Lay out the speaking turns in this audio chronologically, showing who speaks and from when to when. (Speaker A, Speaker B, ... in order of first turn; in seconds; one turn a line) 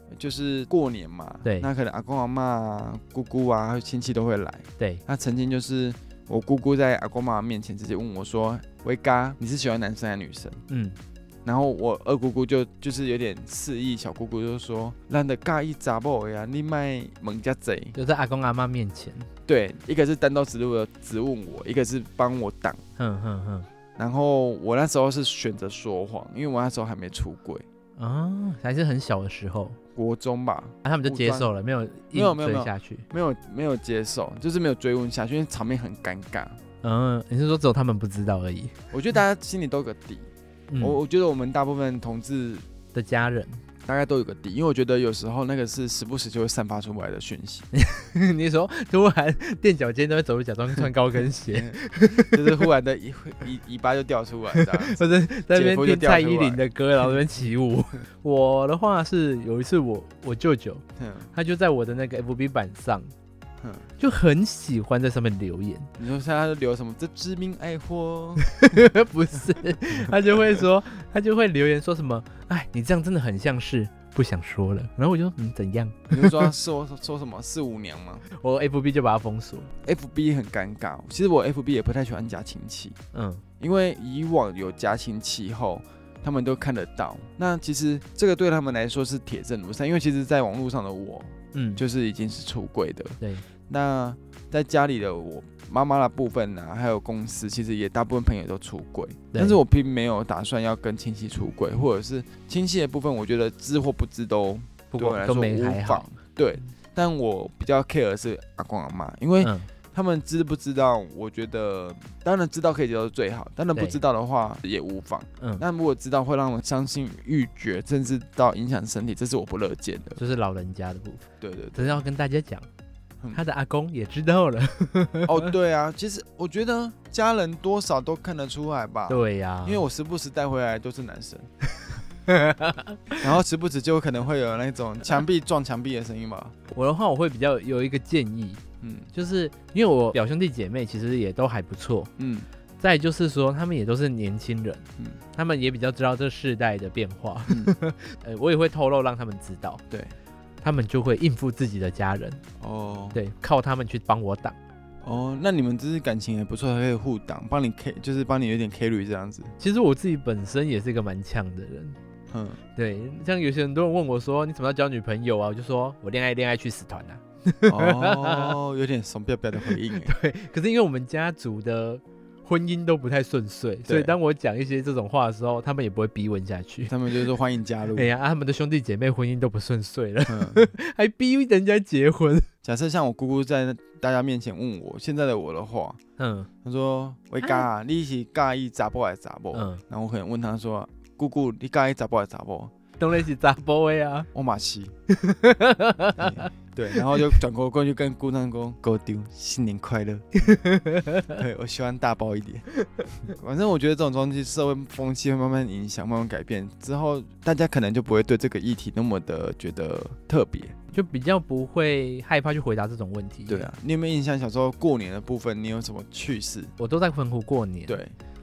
Speaker A: 0.1-10.6
Speaker B: 1.4-1.7
Speaker B: 10.7-11.0
Speaker A: 11.4-17.9
Speaker B: 17.9-19.3
Speaker A: 19.5-22.8
Speaker B: 23.0-23.7
Speaker A: 24.0-27.6
Speaker B: 28.0-29.8
Speaker A: 29.9-31.5
Speaker B: 30.8-33.0
Speaker A: 32.1-36.6
Speaker B: 36.8-38.7
Speaker A: 38.9-40.3
Speaker B: 40.7-41.0
Speaker A: 40.8-42.7
Speaker B: 42.9-43.6
Speaker A: 43.9-47.7
Speaker B: 47.7-52.6
Speaker A: 50.8-57.1
Speaker B: 54.5-63.1
Speaker A: 61.0-61.3
Speaker A: 63.6-63.9
Speaker B: 64.0-65.9
Speaker A: 66.0-68.6
Speaker B: 68.5-76.5
Speaker A: 70.0-70.6
Speaker A: 76.1-78.2
Speaker B: 78.3-79.7
Speaker A: 79.8-83.0
Speaker B: 83.1-83.4
Speaker A: 83.6-120.2
Speaker B: 91.5-91.8
Speaker B: 99.3-99.6
Speaker B: 104.9-106.0
Speaker B: 109.4-109.7
Speaker B: 113.7-114.0
Speaker B: 120.2-122.7
Speaker A: 121.4-122.0
Speaker B: 123.3-125.5
Speaker A: 125.2-131.5
Speaker B: 129.1-129.8
Speaker B: 132.3-133.2
Speaker A: 133.1-136.6
Speaker B: 136.7-138.6
Speaker A: 138.8-139.1
Speaker B: 139.1-142.1
Speaker A: 142.2-142.5
Speaker B: 142.8-149.8
Speaker B: 150.6-152.4
Speaker A: 152.6-153.2
Speaker B: 153.1-154.6
Speaker A: 155.0-159.5
Speaker B: 159.6-162.0
Speaker A: 162.3-162.6
Speaker B: 162.8-168.6
Speaker A: 167.7-170.1
Speaker B: 169.7-176.9
Speaker A: 173.9-174.1
Speaker A: 176.9-178.1
Speaker B: 177.9-182.5
Speaker A: 180.3-180.7
Speaker A: 182.6-186.0
Speaker B: 186.2-186.5
Speaker A: 186.6-192.7
Speaker B: 189.5-189.8
Speaker B: 193.0-194.3
Speaker A: 194.3-194.9
Speaker B: 195.1-197.3
Speaker A: 196.2-200.4
Speaker B: 200.3-201.4
Speaker A: 201.3-202.7
Speaker A: 203.2-210.8
Speaker B: 210.9-213.7
Speaker A: 213.5-216.7
Speaker B: 216.8-218.0
Speaker A: 217.9-218.1